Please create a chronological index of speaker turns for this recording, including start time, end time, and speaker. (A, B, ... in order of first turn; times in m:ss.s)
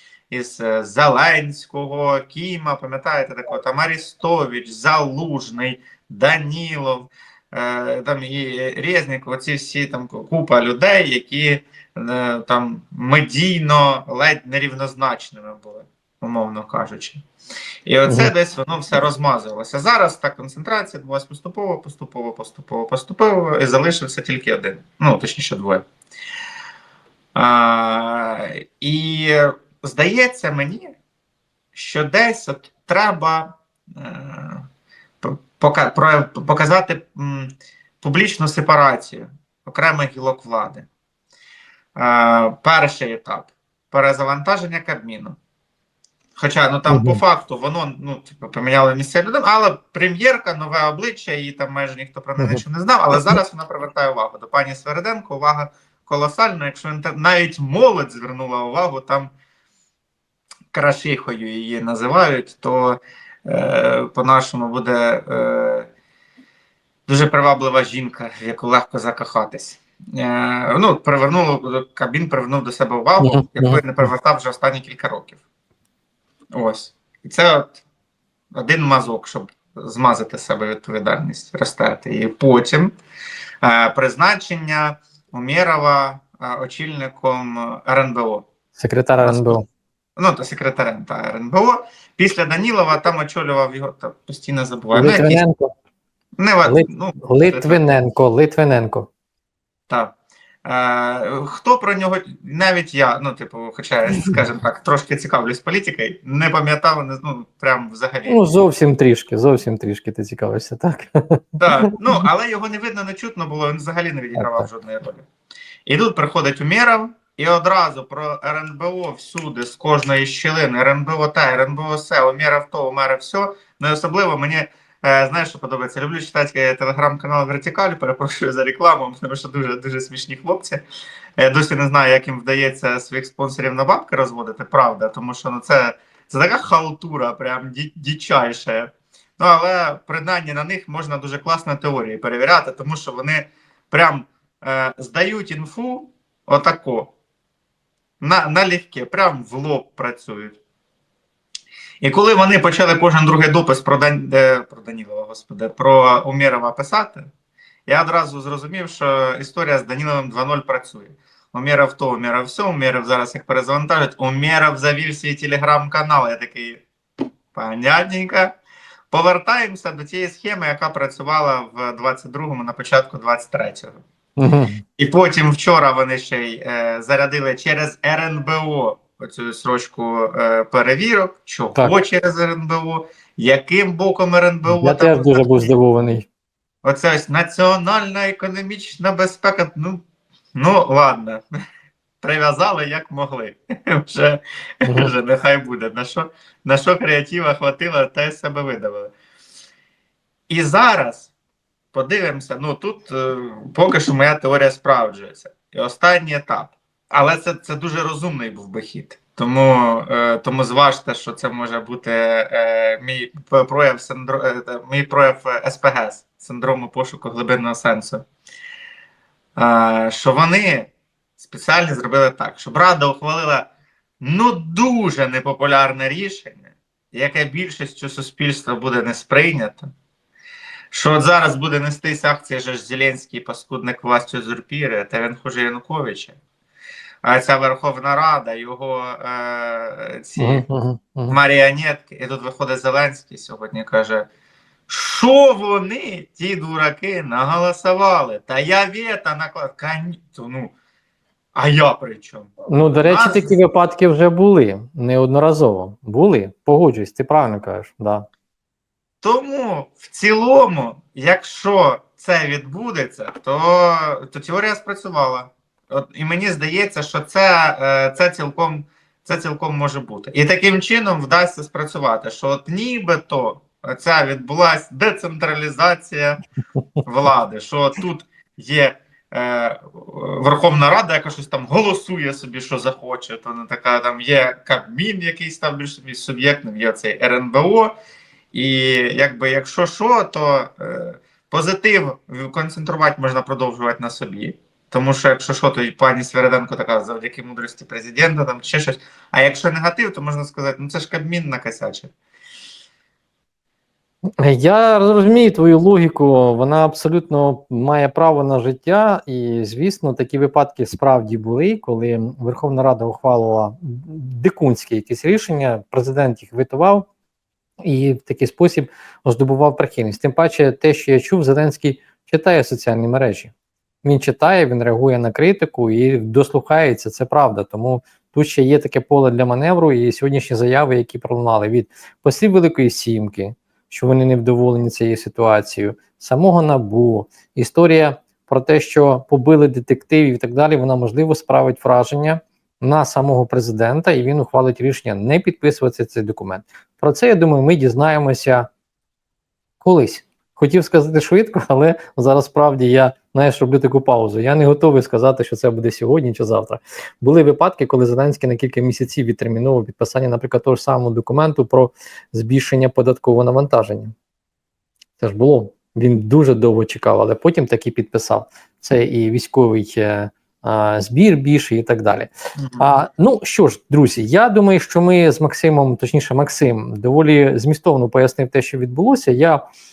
0:00.3-0:17.2 A
0:17.8-0:25.8 A
0:18.1-0:18.3 B
0:27.4-0:31.0 A
0:31.7-0:34.6 A
0:35.2-0:40.9 A
0:42.0-0:45.4 A
0:46.4-0:59.3 A
0:46.9-0:47.2 B
0:53.1-0:53.4 B
1:00.7-1:05.9 A
1:07.1-1:15.4 A
1:13.2-1:14.1 B
1:16.5-1:17.8 A
1:18.5-1:22.9 A
1:23.6-1:28.5 A
1:28.8-1:29.6 B
1:29.2-1:29.6 A
1:30.2-1:35.4 A
1:34.9-1:35.7 B
1:36.4-1:37.8 A
1:36.6-1:39.1 B
1:39.9-1:48.4 A
1:48.2-1:51.9 B
1:51.6-1:55.3 A
1:54.4-1:54.7 B
1:55.8-2:10.8 A
2:11.4-2:27.1 A
2:28.2-2:30.6 A
2:32.0-2:37.3 A
2:37.9-2:46.8 A
2:47.5-2:48.5 A
2:49.1-2:54.0 A
2:54.4-2:54.8 B
2:55.0-3:05.7 A
3:04.7-3:06.3 B
3:06.8-3:10.0 A
3:10.5-3:11.4 A
3:12.2-3:19.1 A
3:14.8-3:15.1 B
3:20.5-3:21.3 A
3:21.9-3:38.2 A
3:39.6-3:43.7 A
3:44.2-3:49.9 A
3:50.9-3:56.4 A
3:57.2-4:00.6 A
4:00.4-4:01.4 B
4:01.3-4:04.2 A
4:04.9-4:10.7 A
4:11.5-4:13.6 A
4:12.7-4:18.2 B
4:19.2-4:36.4 A
4:37.0-4:47.9 A
4:48.5-5:02.1 A
5:04.4-5:17.1 B
5:17.8-5:23.5 B
5:24.0-5:48.7 B
5:49.8-6:04.1 B
6:05.2-6:19.6 B
6:12.6-6:13.0 A